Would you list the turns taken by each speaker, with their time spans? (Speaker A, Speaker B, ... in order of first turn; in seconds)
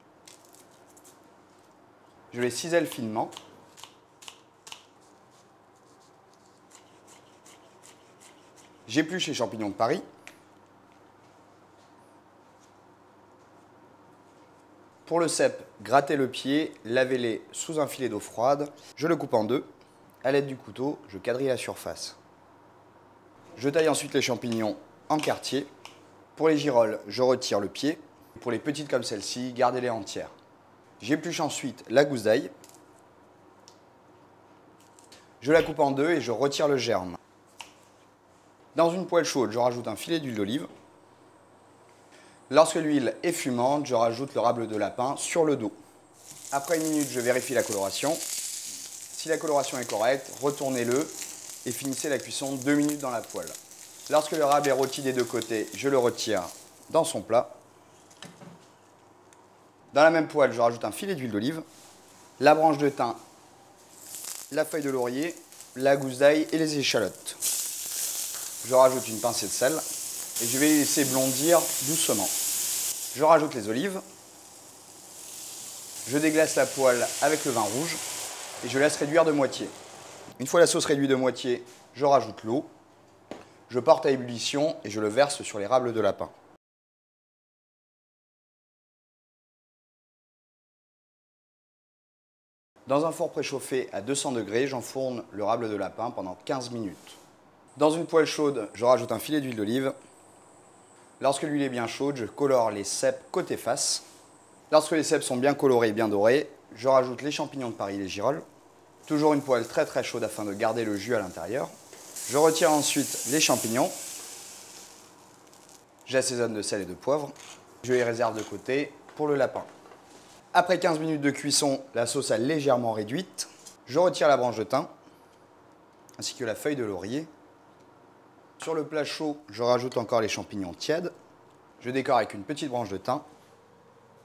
Speaker A: 2.3-3.3, 8.9-10.0, 15.1-19.7, 20.2-22.2, 23.6-25.7, 26.3-30.3, 31.0-32.5, 35.4-37.2, 38.7-40.7, 42.5-45.7, 46.5-48.2, 49.1-53.5, 54.1-57.5, 59.9-61.6, 62.4-63.2, 64.5-67.4, 68.6-69.8, 70.4-72.3, 73.1-74.0, 76.1-78.0, 78.6-79.7, 80.4-82.7, 83.7-86.3, 92.9-97.2, 97.8-99.9, 101.2-104.0, 104.7-108.4, 109.1-111.7, 112.3-113.9, 116.0-119.7, 120.5-124.9, 126.2-127.3, 128.6-131.1, 131.8-133.2